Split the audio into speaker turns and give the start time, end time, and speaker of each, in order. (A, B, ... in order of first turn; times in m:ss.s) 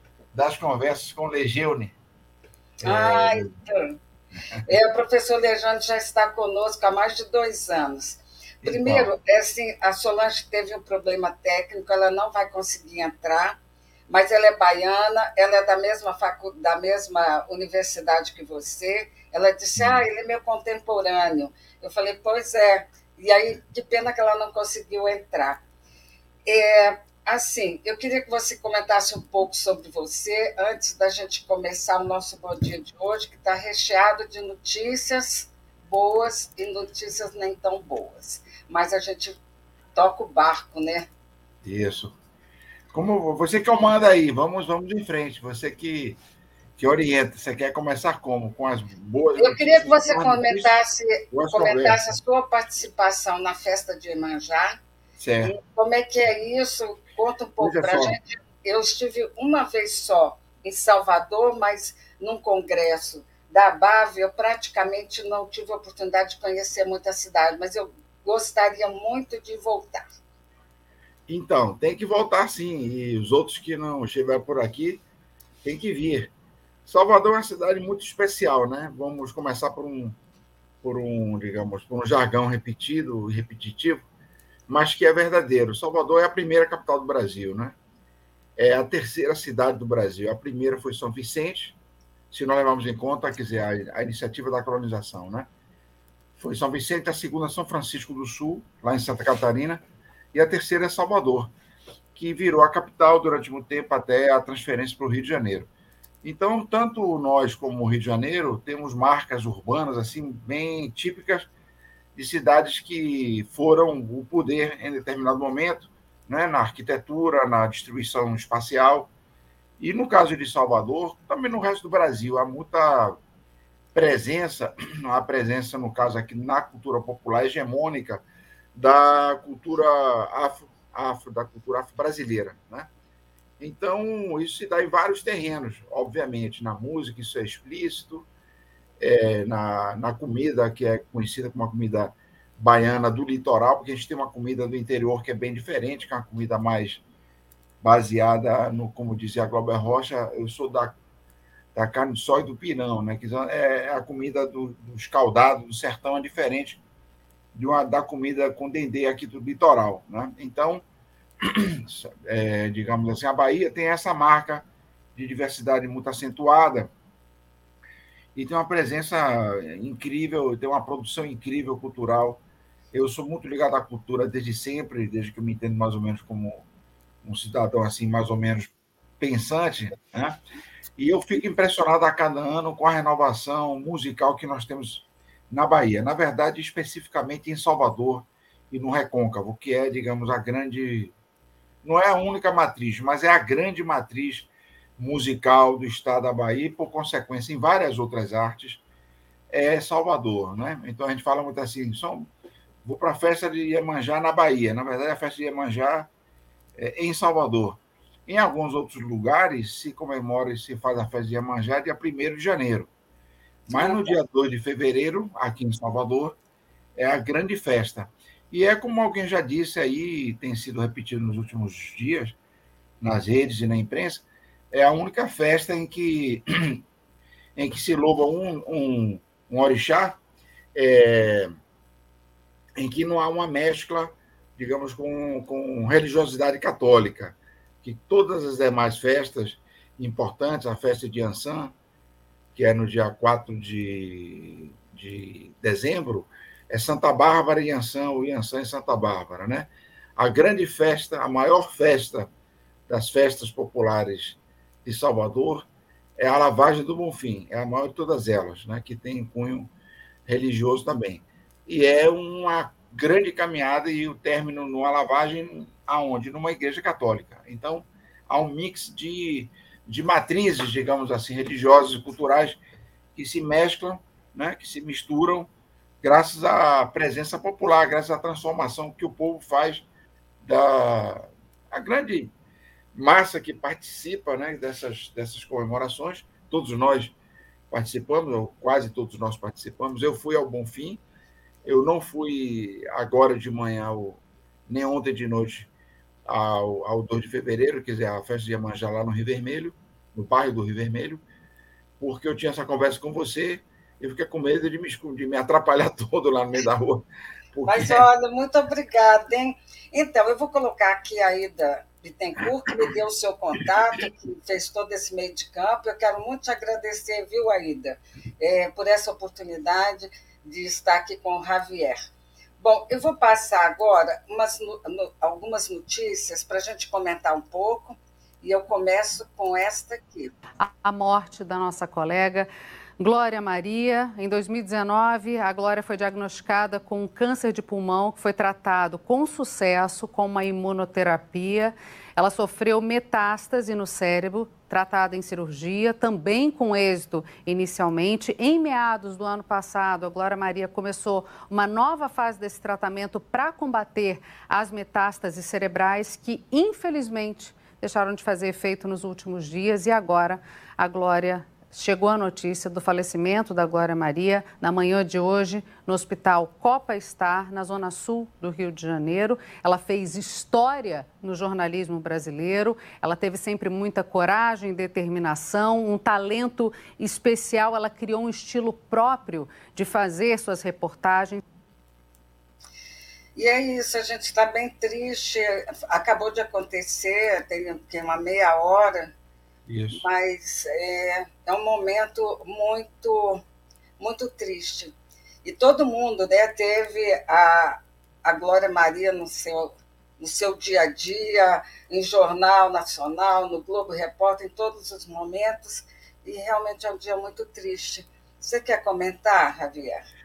0:00.3-0:02.0 A
0:02.8-0:03.5 A
0:02.8-0:04.0 B
0:04.6-0:13.6 B
0:08.6-0:09.1 A
0:14.1-0:25.6 B
0:19.8-0:20.0 A
0:26.5-0:39.4 B
0:40.0-0:41.1 B
0:41.6-0:42.2 A
0:42.9-0:46.2 A
0:46.8-0:50.7 A
0:49.4-0:54.8 B
0:51.3-0:52.2 A
0:55.2-0:55.5 A
0:55.4-1:10.0 B
0:57.6-0:58.2 A
1:11.3-1:15.0 A
1:15.6-1:16.3 A
1:16.9-1:20.2 A
1:20.8-1:24.0 A
1:24.7-1:27.8 A
1:28.6-1:31.8 A
1:32.3-1:35.5 A
1:36.4-1:39.8 A
1:40.3-1:41.5 A
1:42.2-1:45.7 A
1:46.2-1:51.5 A
1:52.2-1:59.1 A
1:59.8-2:03.2 A
2:03.9-2:08.2 A
2:08.8-2:12.9 A
2:13.6-2:18.3 A
2:19.0-2:27.0 A
2:27.8-2:31.0 A
2:31.8-2:36.8 A
2:37.6-2:40.8 A
2:41.4-2:46.9 A
2:48.4-2:56.6 A
2:57.2-3:00.4 A
3:01.0-3:11.1 A
3:11.8-3:18.8 A
3:19.5-3:22.3 A
3:22.8-3:26.1 A
3:26.8-3:32.9 A
3:33.7-3:36.4 A
3:33.7-3:34.2 B
3:37.0-3:42.4 A
3:43.0-3:46.8 A
3:47.6-3:50.2 A
3:50.8-3:51.5 A
3:52.8-4:01.7 A
4:02.5-4:12.3 A
4:12.9-4:19.7 A
4:20.3-4:32.6 A
4:33.2-4:35.5 A
4:36.0-4:39.8 A
4:40.4-4:42.3 A
4:42.9-4:47.1 A
4:47.7-4:51.0 A
4:51.6-4:55.7 A
4:56.3-5:01.2 A
5:02.0-5:08.1 A
5:07.6-5:22.0 B
5:22.6-5:30.3 B
5:30.6-6:21.4 C
6:23.4-6:29.1 B
6:29.7-6:30.0 A
6:29.9-6:33.4 B
6:34.0-6:34.9 B
6:35.4-6:50.0 B